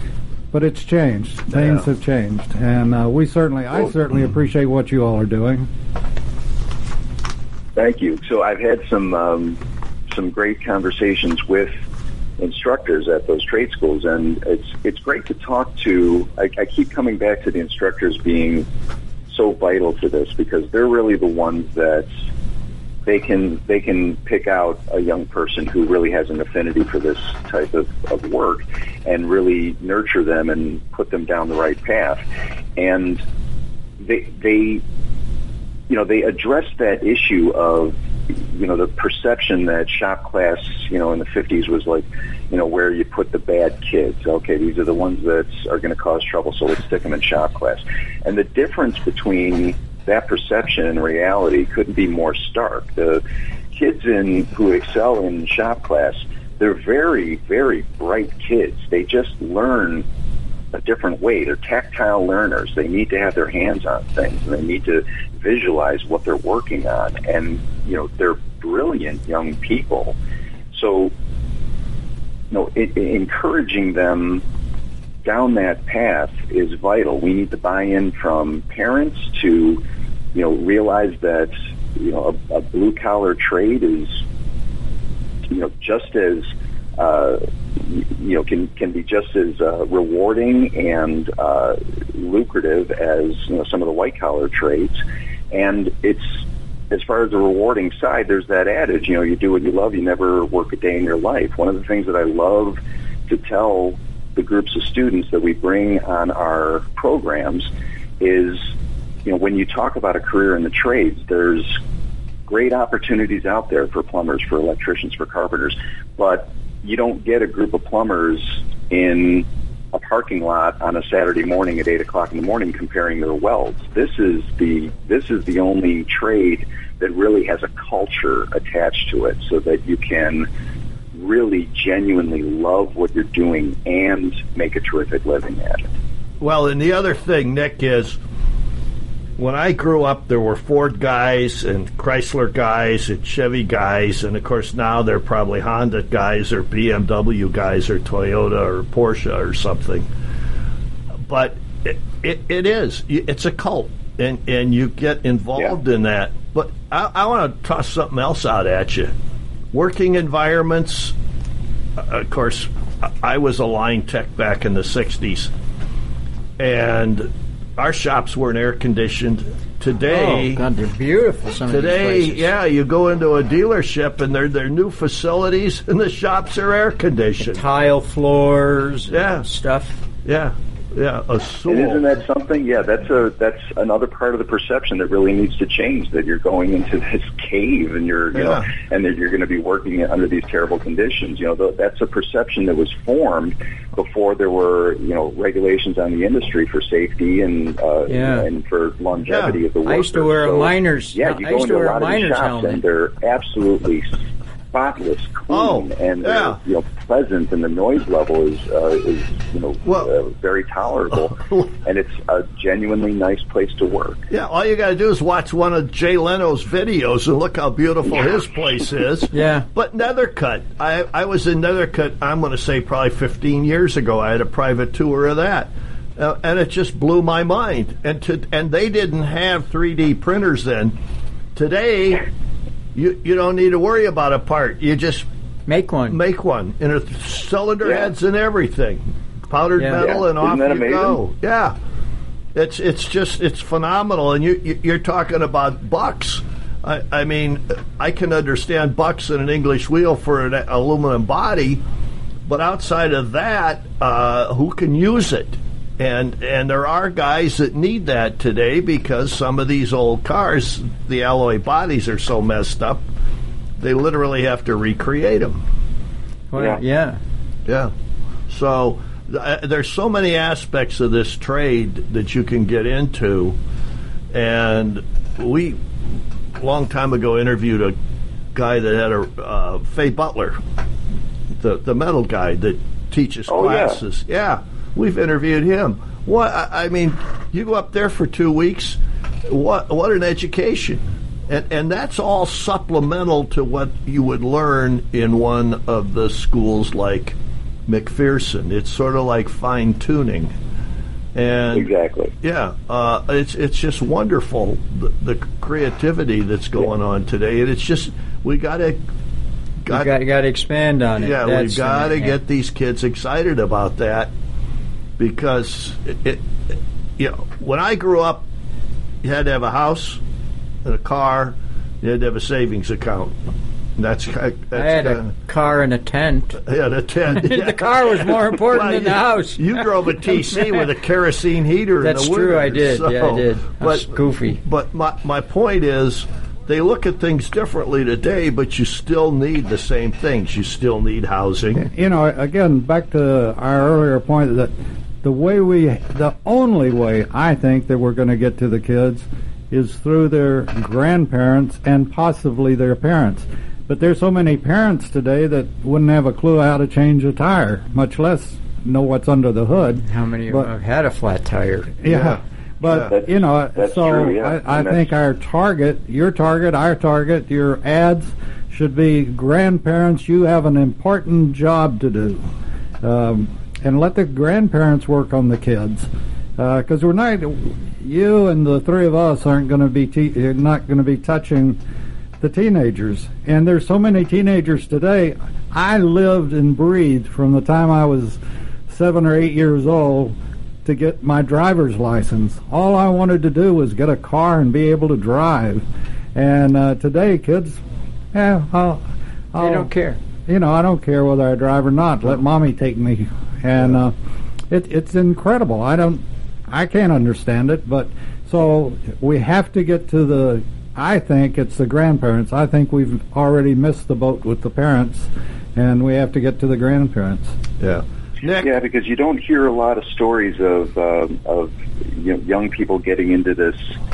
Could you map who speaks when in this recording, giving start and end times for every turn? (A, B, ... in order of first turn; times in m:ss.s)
0:00.5-0:05.7 A
0:07.8-0:09.6 B
0:10.1-0:11.8 B
0:12.4-0:18.7 B
0:19.3-0:22.1 B
0:23.1-0:32.2 B
0:32.8-0:33.2 B
0:34.0-0:34.8 B
0:35.9-0:38.0 B
0:38.5-0:53.2 B
0:53.7-1:00.0 B
1:00.7-1:10.2 B
1:10.7-1:11.1 B
1:12.5-1:14.4 B
1:15.2-1:19.8 B
1:20.3-1:24.2 B
1:25.5-1:35.0 B
1:35.5-1:36.4 B
1:36.9-1:48.7 B
1:49.2-1:51.8 B
1:52.5-2:10.5 B
2:11.1-2:15.9 B
2:16.4-2:18.2 C
2:19.4-2:30.1 C
2:31.3-2:39.1 C
2:39.7-2:41.2 C
2:42.0-2:45.5 C
2:46.6-2:50.6 C
2:50.1-2:52.5 D
2:51.7-2:57.6 C
2:57.4-3:00.0 D
2:59.1-2:59.5 C
3:00.2-3:02.1 C
3:01.7-3:24.2 B
3:08.3-3:08.7 C
3:18.1-3:18.5 D
3:19.2-3:19.6 C
3:19.9-3:22.8 D
3:24.7-3:34.2 B
3:25.5-3:26.6 C
3:31.1-3:31.7 C
3:34.3-3:51.0 C
3:39.3-3:39.7 D
3:51.6-3:52.2 C
3:53.0-3:55.2 C
3:55.7-3:56.2 D
3:56.1-4:01.8 C
3:57.8-3:58.1 B
3:59.8-4:00.0 D
4:00.0-4:01.2 B
4:02.6-4:11.8 C
4:12.5-4:23.0 C
4:23.8-4:25.6 C
4:26.5-4:27.2 D
4:26.6-4:26.8 B
4:27.7-4:27.9 C
4:28.5-4:33.6 C
4:34.3-4:35.8 C
4:36.6-4:38.0 C
4:38.5-4:40.6 C
4:41.6-4:57.4 C
4:43.5-4:44.0 B
4:57.9-5:00.5 C
5:01.4-5:01.9 C
5:01.7-5:02.4 B
5:02.4-5:09.0 C
5:09.8-5:10.1 C
5:09.9-5:12.4 D
5:11.2-5:14.3 C
5:15.2-5:16.4 C
5:17.2-5:18.4 C
5:19.2-5:20.2 C
5:20.8-5:23.4 C
5:24.0-5:25.3 C
5:24.7-5:26.6 D
5:26.6-5:41.9 C
5:27.3-5:30.8 D
5:32.0-5:34.6 D
5:41.8-5:44.7 A
5:45.2-6:00.7 A
6:00.1-6:02.0 D
6:02.0-6:12.5 A
6:02.1-6:03.1 C
6:03.1-6:05.1 B
6:13.0-6:21.8 A
6:22.4-6:35.8 A
6:36.4-6:37.8 A
6:38.3-6:39.9 A
6:39.6-6:40.2 D
6:40.5-6:44.1 A
6:44.7-6:57.5 A
6:57.8-6:58.7 C
6:58.6-7:03.9 B